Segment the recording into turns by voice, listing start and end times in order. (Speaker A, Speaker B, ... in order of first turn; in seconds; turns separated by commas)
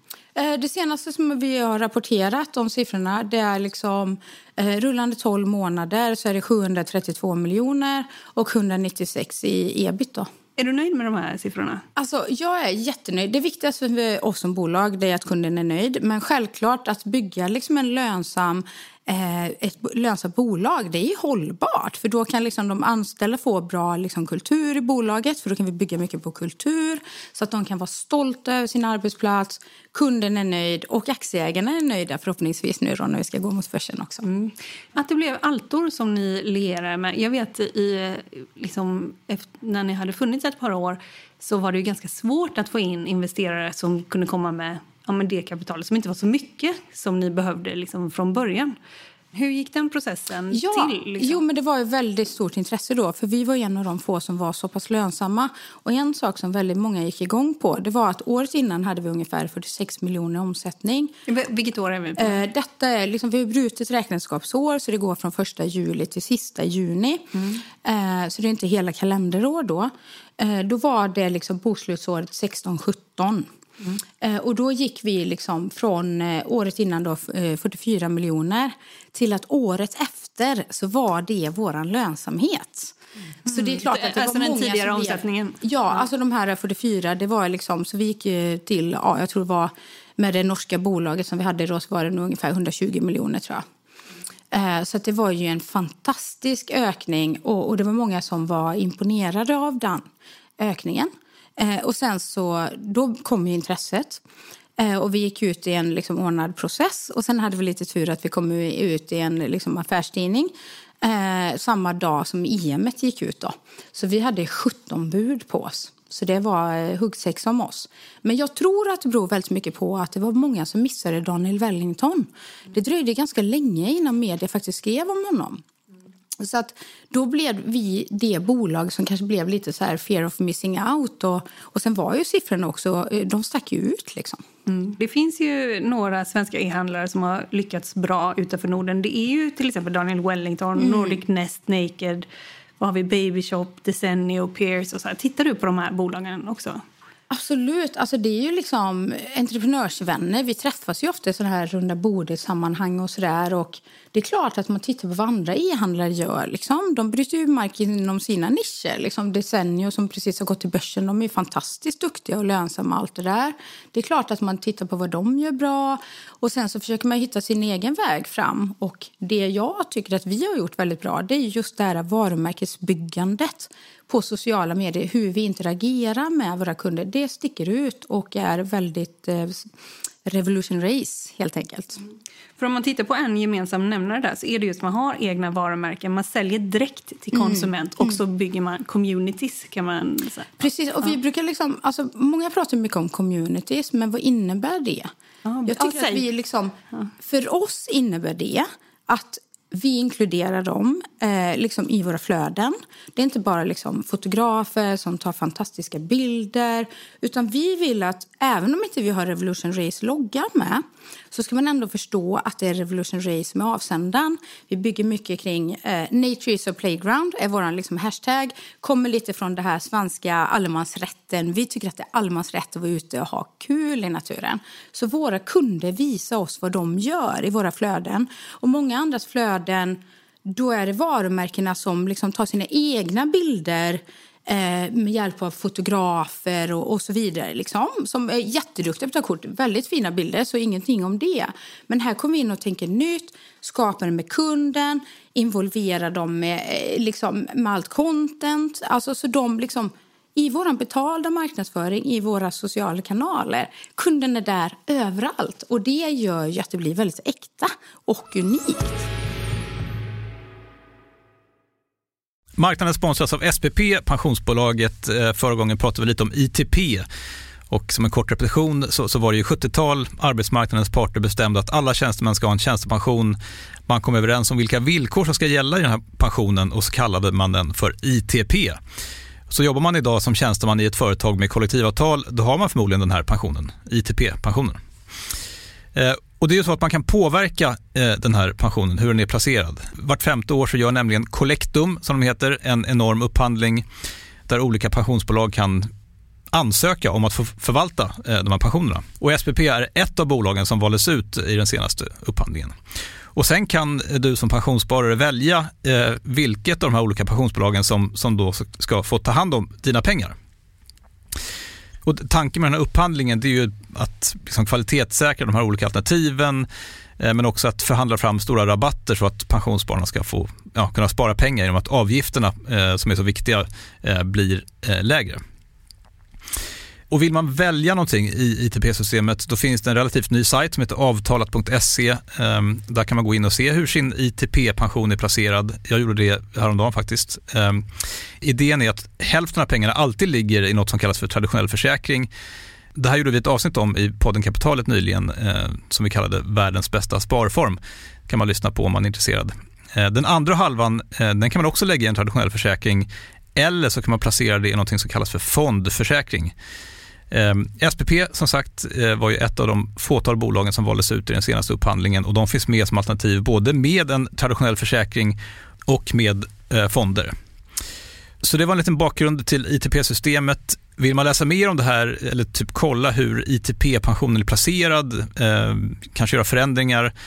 Speaker A: 0.4-10.3, Speaker B: 10.6-11.8, Speaker A: 12.0-34.2, Speaker B: 34.2-48.8, Speaker B: 49.3-51.4, Speaker A: 50.5-61.1, Speaker B: 61.3-62.4, Speaker A: 62.2-67.3, Speaker B: 67.3-67.6, Speaker A: 67.8-73.5, Speaker A: 74.2-83.0, Speaker B: 83.5-85.6, Speaker A: 83.5-93.7, Speaker A: 94.5-100.1, Speaker A: 100.6-104.2, Speaker A: 104.8-125.6, Speaker A: 126.4-134.4, Speaker B: 134.7-142.3, Speaker A: 140.8-141.2, Speaker B: 142.8-146.8, Speaker A: 147.3-179.7, Speaker A: 180.3-182.0, Speaker B: 182.6-190.7, Speaker A: 187.3-188.2, Speaker A: 190.6-195.1, Speaker B: 195.4-196.2, Speaker A: 195.7-259.1, Speaker C: 262.6-267.1, Speaker C: 267.7-278.8, Speaker C: 279.5-284.8, Speaker C: 285.9-293.9, Speaker C: 294.5-295.9, Speaker C: 296.5-302.8, Speaker C: 303.3-310.4, Speaker C: 312.1-316.7, Speaker C: 317.2-325.4, Speaker C: 327.1-337.9, Speaker C: 338.4-342.3, Speaker C: 342.9-356.5, Speaker C: 357.3-367.4, Speaker C: 368.4-377.1